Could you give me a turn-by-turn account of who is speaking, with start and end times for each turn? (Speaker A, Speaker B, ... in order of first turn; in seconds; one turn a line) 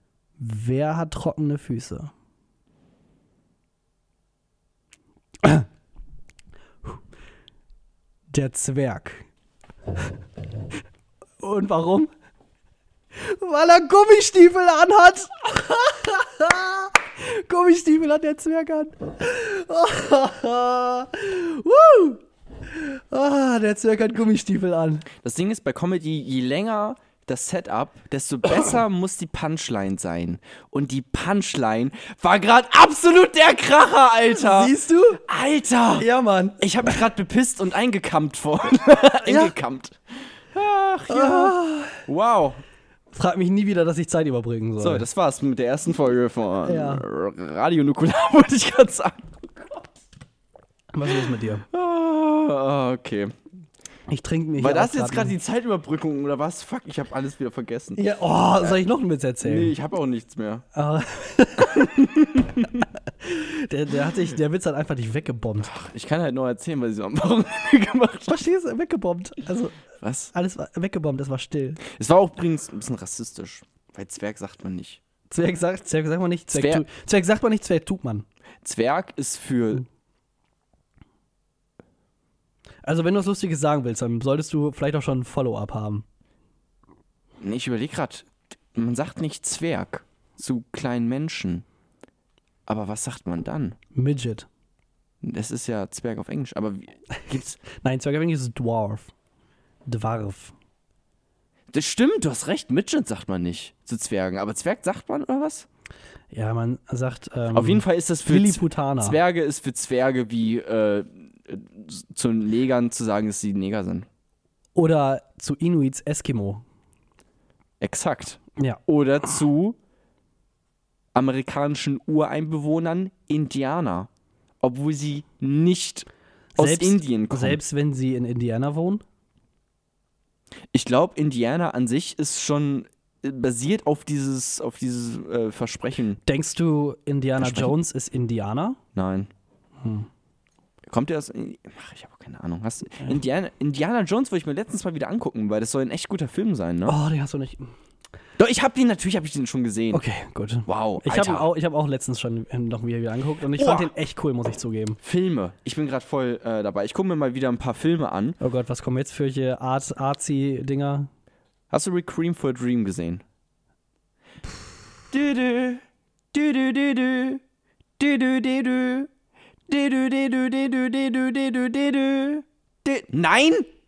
Speaker A: 0.4-2.1
Speaker A: 8.3-9.3
Speaker A: 11.4-12.1
Speaker A: 13.2-25.1
Speaker B: 25.2-36.1
Speaker A: 34.3-35.2
Speaker A: 36.0-37.0
Speaker B: 36.6-42.6
Speaker A: 39.2-39.5
Speaker A: 41.1-42.0
Speaker A: 43.1-45.0
Speaker B: 44.8-49.8
Speaker A: 46.6-47.0
Speaker A: 50.9-51.6
Speaker B: 51.1-53.3
Speaker A: 54.1-55.3
Speaker B: 54.6-58.0
Speaker A: 58.0-59.7
Speaker B: 59.4-60.6
Speaker A: 60.7-62.1
Speaker B: 61.6-62.8
Speaker A: 63.2-65.7
Speaker B: 65.6-68.4
Speaker A: 68.3-69.8
Speaker B: 70.0-70.3
Speaker A: 70.3-71.8
Speaker B: 71.8-75.0
Speaker A: 75.3-78.2
Speaker B: 76.5-76.8
Speaker B: 78.6-79.8
Speaker A: 82.8-86.0
Speaker B: 87.4-91.6
Speaker B: 92.7-93.8
Speaker A: 93.9-94.5
Speaker B: 95.2-97.6
Speaker A: 97.8-99.1
Speaker A: 99.8-100.5
Speaker B: 101.7-105.7
Speaker A: 106.3-109.2
Speaker B: 107.5-114.1
Speaker A: 114.8-116.6
Speaker B: 117.8-119.8
Speaker B: 121.1-124.1
Speaker B: 124.6-127.6
Speaker A: 126.5-129.0
Speaker B: 130.7-136.2
Speaker A: 136.2-138.8
Speaker B: 137.4-137.7
Speaker B: 138.9-139.3
Speaker A: 139.8-140.1
Speaker B: 140.9-146.9
Speaker A: 146.8-147.7
Speaker B: 148.4-150.0
Speaker A: 149.9-155.0
Speaker B: 150.7-151.5
Speaker B: 153.5-153.9
Speaker B: 155.0-158.4
Speaker A: 158.4-161.1
Speaker B: 161.7-163.2
Speaker B: 165.1-167.4
Speaker B: 168.0-169.1
Speaker B: 169.7-173.7